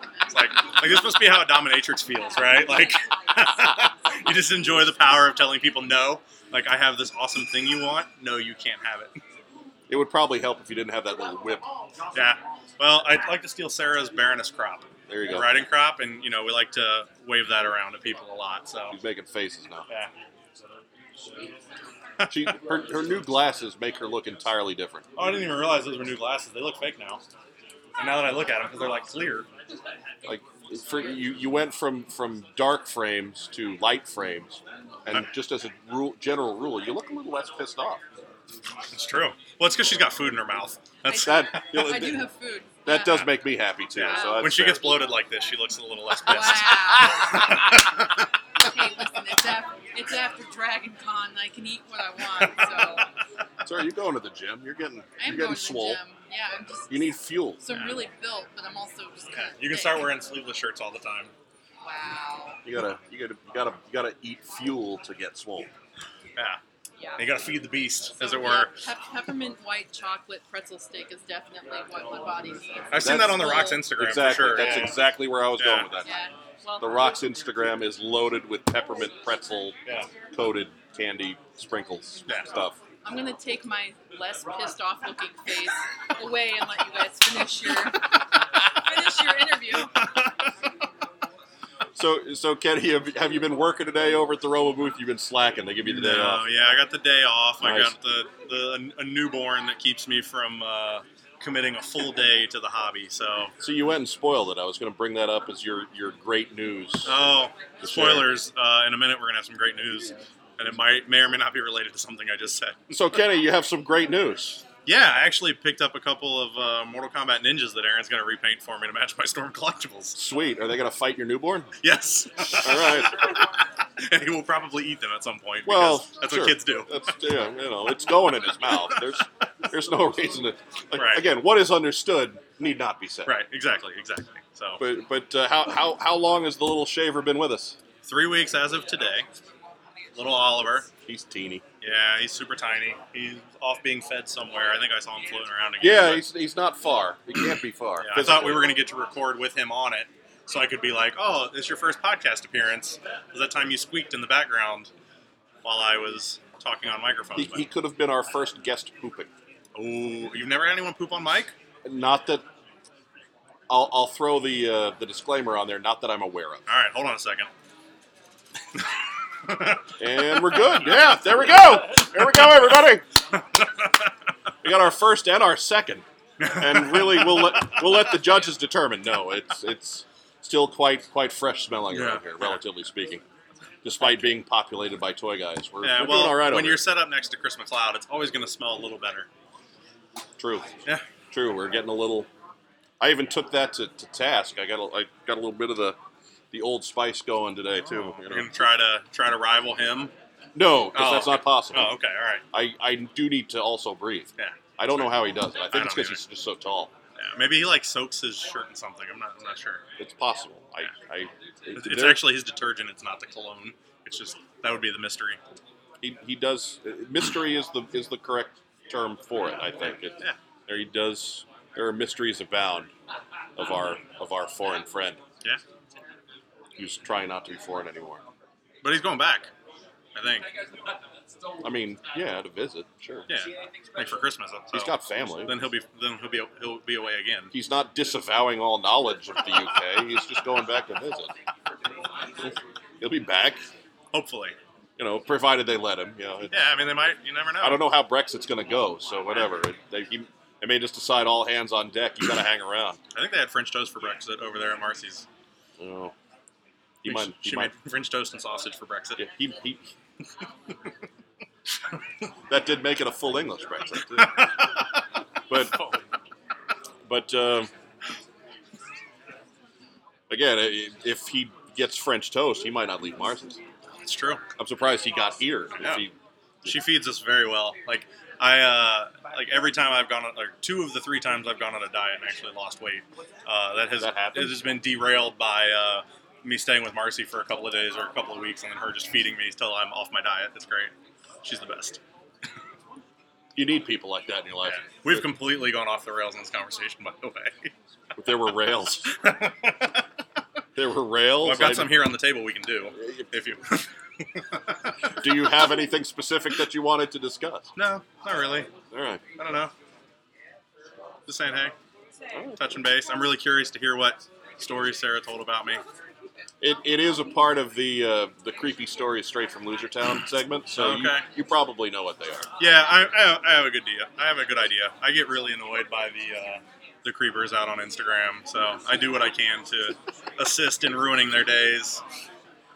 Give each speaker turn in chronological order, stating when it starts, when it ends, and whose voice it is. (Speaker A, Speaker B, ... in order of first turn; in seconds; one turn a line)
Speaker A: 0.3-9.2
Speaker B: 9.9-11.7
Speaker A: 12.1-19.0
Speaker B: 15.1-15.6
Speaker B: 18.9-19.9
Speaker B: 22.3-25.1
Speaker A: 25.1-27.2
Speaker A: 28.0-29.5
Speaker B: 30.2-38.0
Speaker A: 38.9-41.9
Speaker C: 41.0-43.3
Speaker B: 41.1-42.3
Speaker B: 42.8-45.0
Speaker A: 44.0-48.3
Speaker C: 44.0-44.4
Speaker C: 46.2-47.5
Speaker C: 48.6-53.1
Speaker B: 53.6-56.0
Speaker C: 55.2-60.1
Speaker B: 56.9-57.7
Speaker A: 57.7-58.0
Speaker A: 59.3-61.3
Speaker C: 61.8-62.6
Speaker B: 62.6-65.7
Speaker C: 67.0-67.2
Speaker A: 67.2-68.7
Speaker C: 68.2-73.9
Speaker A: 72.9-75.0
Speaker B: 73.0-76.1
Speaker C: 74.6-74.9
Speaker A: 75.6-75.9
Speaker C: 76.0-77.0
Speaker B: 76.8-79.8
Speaker B: 80.3-82.8
Speaker C: 83.0-90.0
Speaker A: 90.0-90.5
Speaker B: 91.9-96.5
Speaker A: 95.9-103.5
Speaker B: 97.6-98.0
Speaker B: 103.6-107.2
Speaker A: 107.0-113.2
Speaker B: 107.8-108.3
Speaker B: 112.9-114.6
Speaker A: 114.8-120.2
Speaker B: 120.1-121.7
Speaker A: 121.8-123.4
Speaker B: 122.6-123.3
Speaker A: 124.0-126.9
Speaker B: 125.6-133.3
Speaker A: 130.9-131.2
Speaker A: 133.2-134.8
Speaker B: 134.8-137.8
Speaker A: 138.0-139.3
Speaker A: 140.1-140.9
Speaker B: 141.1-141.6
Speaker A: 141.8-146.2
Speaker B: 145.8-148.8
Speaker A: 148.0-154.9
Speaker A: 155.6-157.7
Speaker B: 157.3-159.3
Speaker A: 159.7-161.5
Speaker B: 161.8-162.4
Speaker B: 163.7-166.6
Speaker A: 166.7-167.5
Speaker A: 169.4-170.6
Speaker B: 170.0-173.0
Speaker A: 173.5-173.9
Speaker B: 174.6-183.2
Speaker A: 176.4-177.7
Speaker A: 181.9-182.6
Speaker B: 183.8-186.8
Speaker A: 185.8-189.3
Speaker B: 190.4-190.7
Speaker B: 191.3-192.3
Speaker B: 193.0-196.0
Speaker B: 196.5-198.7
Speaker A: 197.8-200.1
Speaker B: 200.5-201.9
Speaker A: 200.9-202.4
Speaker B: 202.5-206.9
Speaker A: 205.7-206.2
Speaker A: 207.2-209.8
Speaker B: 210.0-212.4
Speaker A: 211.7-215.4
Speaker B: 216.0-222.9
Speaker B: 223.6-225.2
Speaker B: 226.8-228.2
Speaker A: 228.8-229.5
Speaker A: 230.1-230.5
Speaker B: 231.6-233.3
Speaker A: 233.3-237.5
Speaker B: 234.7-235.6
Speaker B: 237.5-241.3
Speaker B: 242.4-243.6
Speaker A: 244.1-244.6
Speaker B: 245.0-246.7
Speaker A: 246.5-247.8
Speaker B: 247.6-253.0
Speaker A: 253.1-255.2
Speaker B: 255.8-256.1
Speaker B: 257.0-257.7
Speaker A: 257.0-259.2
Speaker B: 259.2-259.9
Speaker B: 262.5-264.7
Speaker A: 264.2-264.8
Speaker B: 265.5-265.9
Speaker B: 267.1-267.7
Speaker B: 270.3-273.6
Speaker A: 274.0-274.4
Speaker B: 274.6-276.1
Speaker A: 275.8-276.0
Speaker A: 276.7-290.9
Speaker B: 284.0-284.8
Speaker A: 291.4-292.0
Speaker B: 293.5-295.2
Speaker A: 294.7-297.7
Speaker B: 298.2-299.2
Speaker A: 299.1-300.0
Speaker B: 300.7-302.0
Speaker A: 301.4-304.9
Speaker B: 303.0-303.2
Speaker B: 305.1-307.7
Speaker A: 307.8-308.7
Speaker B: 308.9-309.2
Speaker A: 309.4-309.7
Speaker A: 311.3-311.7
Speaker B: 312.3-312.6
Speaker A: 312.6-315.8
Speaker B: 316.6-322.5
Speaker A: 320.8-321.3
Speaker A: 322.6-332.0